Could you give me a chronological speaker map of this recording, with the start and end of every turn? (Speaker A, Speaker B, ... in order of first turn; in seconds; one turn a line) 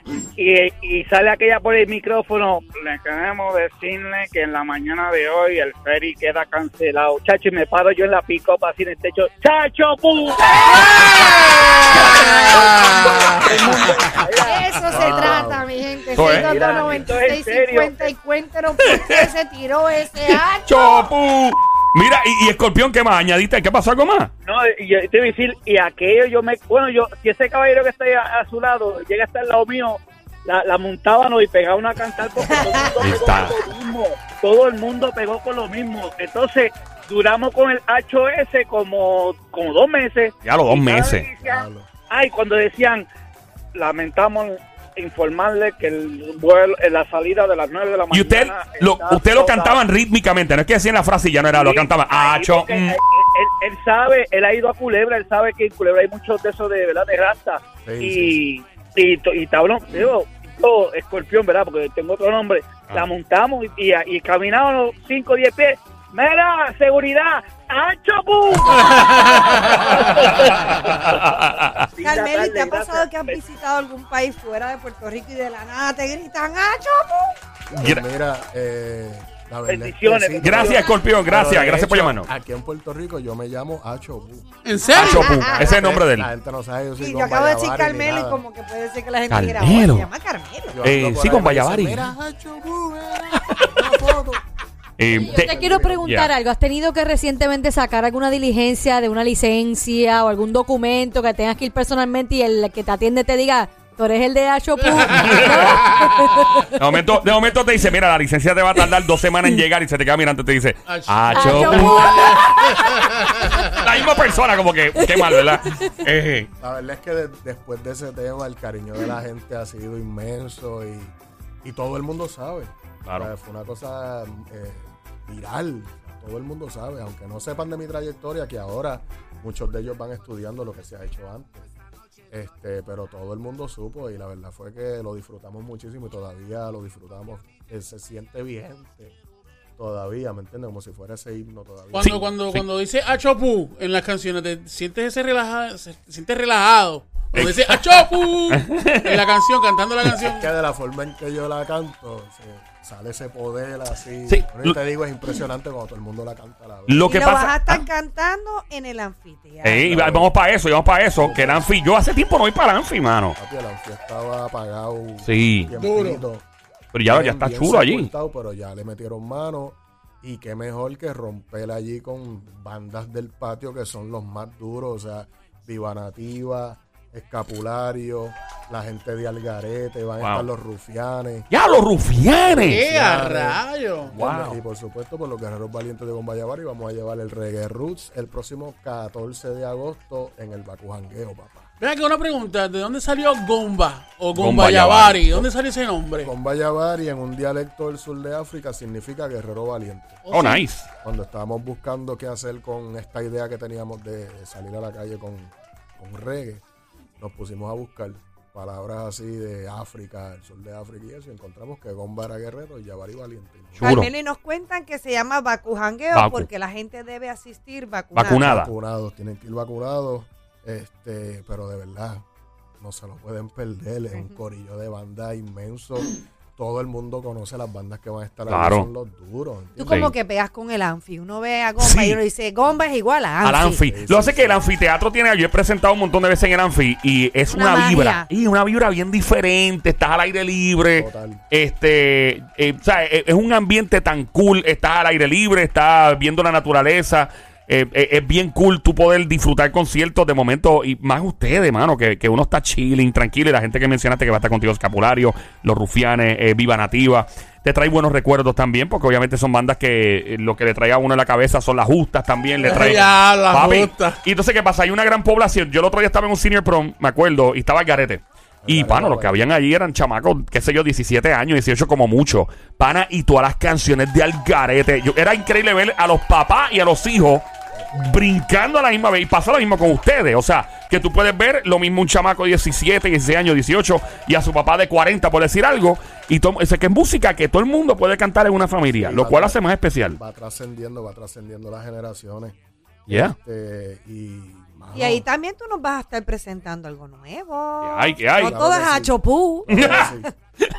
Speaker A: 0.4-11.2
Speaker B: 10.7-12.7
Speaker C: 10.8-14.2
Speaker A: 11.8-15.4
Speaker D: 11.9-12.5
Speaker B: 14.4-21.1
Speaker E: 14.9-15.6
Speaker D: 14.9-15.5
Speaker D: 16.1-16.6
Speaker A: 16.1-18.1
Speaker D: 18.8-19.3
Speaker D: 20.3-24.3
Speaker A: 24.4-43.1
Speaker B: 32.4-32.9
Speaker D: 33.0-33.6
Speaker D: 40.4-41.3
Speaker E: 41.4-41.9
Speaker A: 43.7-49.8
Speaker D: 48.1-53.0
Speaker A: 51.5-71.3
Speaker E: 57.8-58.4
Speaker D: 70.5-71.9
Speaker A: 71.9-73.4
Speaker B: 72.0-77.3
Speaker E: 77.7-84.5
Speaker D: 77.8-78.0
Speaker A: 79.7-80.9
Speaker D: 80.4-82.3
Speaker C: 84.6-85.5
Speaker B: 84.9-85.8
Speaker D: 84.9-86.3
Speaker E: 85.5-88.4
Speaker B: 87.0-90.8
Speaker D: 89.3-90.1
Speaker E: 90.7-94.4
Speaker D: 90.8-92.1
Speaker D: 93.4-93.8
Speaker D: 95.0-96.3
Speaker E: 95.1-96.0
Speaker F: 95.1-106.7
Speaker C: 104.8-106.4
Speaker D: 105.1-105.9
Speaker D: 106.8-116.5
Speaker C: 110.9-113.9
Speaker F: 111.3-112.2
Speaker F: 115.0-115.9
Speaker E: 116.6-131.7
Speaker D: 123.0-123.3
Speaker E: 132.3-139.2
Speaker E: 139.8-142.3
Speaker C: 141.9-150.5
Speaker D: 142.0-142.6
Speaker D: 147.3-149.2
Speaker E: 150.2-157.2
Speaker D: 154.3-154.8
Speaker D: 156.9-157.9
Speaker B: 157.1-160.0
Speaker D: 159.6-163.4
Speaker E: 159.8-160.3
Speaker E: 161.1-161.7
Speaker E: 163.4-166.5
Speaker D: 165.2-165.7
Speaker C: 165.8-166.2
Speaker D: 166.9-168.1
Speaker E: 167.1-181.5
Speaker D: 180.2-180.5
Speaker D: 181.5-182.8
Speaker E: 182.5-191.7
Speaker C: 182.6-184.2
Speaker D: 184.2-184.6
Speaker C: 191.8-196.3
Speaker D: 194.3-195.5
Speaker E: 196.2-200.2
Speaker C: 200.2-200.6
Speaker D: 200.3-200.9
Speaker E: 201.0-206.6
Speaker E: 207.2-214.0
Speaker D: 213.8-214.1
Speaker B: 213.8-218.5
Speaker D: 216.1-216.5
Speaker D: 218.1-218.7
Speaker E: 218.3-222.2
Speaker E: 222.8-230.0
Speaker D: 228.5-228.9
Speaker B: 229.8-233.8
Speaker D: 229.9-230.1
Speaker D: 231.8-232.2
Speaker D: 233.4-290.2
Speaker E: 233.8-234.7
Speaker B: 237.5-238.3
Speaker E: 240.9-241.4
Speaker C: 262.6-264.2
Speaker E: 268.6-269.4
Speaker E: 288.9-295.2
Speaker D: 293.1-293.4
Speaker B: 294.9-300.1
Speaker D: 297.8-298.6
Speaker E: 298.4-300.3
Speaker D: 299.7-300.1